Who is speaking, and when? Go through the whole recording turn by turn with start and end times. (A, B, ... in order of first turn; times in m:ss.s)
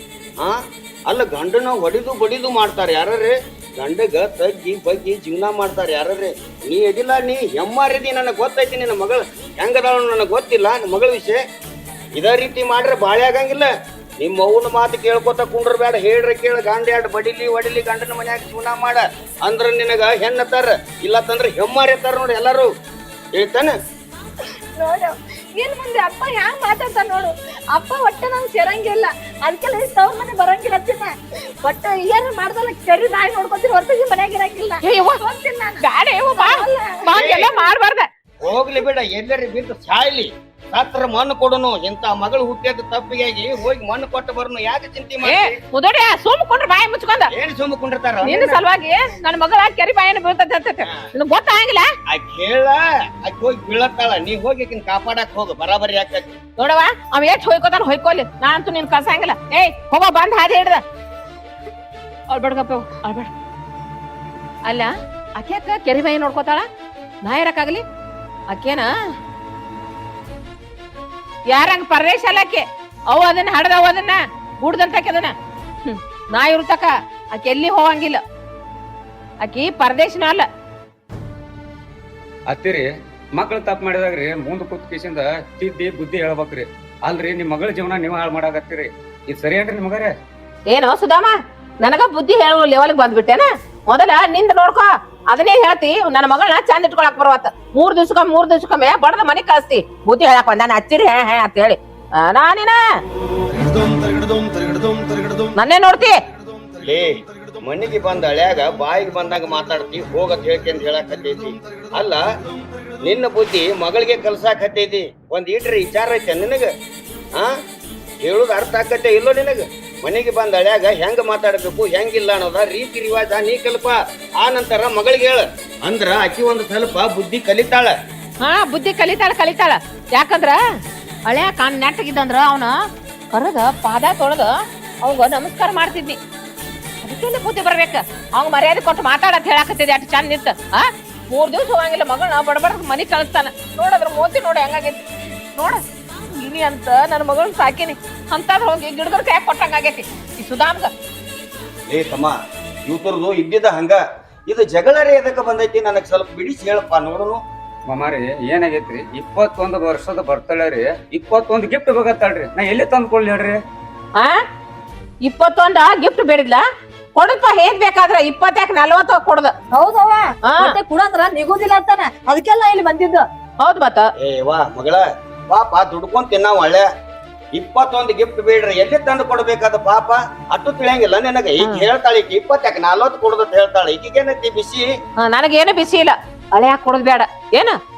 0:00.4-0:11.4 A
0:12.2-0:22.7 A
0:23.4-0:23.8 A
0:24.8-0:37.0 B
0:34.8-0:35.2 C
0:35.8-0:38.1 C
0:37.1-0:37.5 A
0:38.4-0:45.6 A
0:45.2-0:47.3 C
0:47.3-0:48.6 A
0:48.2-0:51.9 C
0:52.1-0:56.4 A
0:56.6-1:00.8 C
1:02.3-1:03.3 C
1:04.7-1:06.7 C
1:07.2-1:07.8 C
1:08.5-1:08.9 C
1:11.5-1:15.3 C
1:15.8-1:18.2 C
1:19.4-1:20.5 C
1:22.5-1:30.1 D
1:30.7-1:42.8 C
1:45.6-1:46.2 C
1:46.8-1:52.2 A
1:53.0-1:56.7 A
1:58.2-2:07.9 A
2:08.4-2:10.6 C
2:11.3-2:12.8 C
2:13.3-2:16.2 C
2:17.0-2:30.9 C
2:31.9-2:37.4 A
2:37.9-2:43.6 D
2:45.2-2:46.6 C
2:47.2-2:49.5 C
2:49.7-2:53.3 B
2:50.4-2:50.7 C
2:53.6-2:54.1 C
2:54.2-2:56.9 A
2:57.6-3:04.9 A
3:01.6-3:01.9 C
3:05.2-3:07.8 C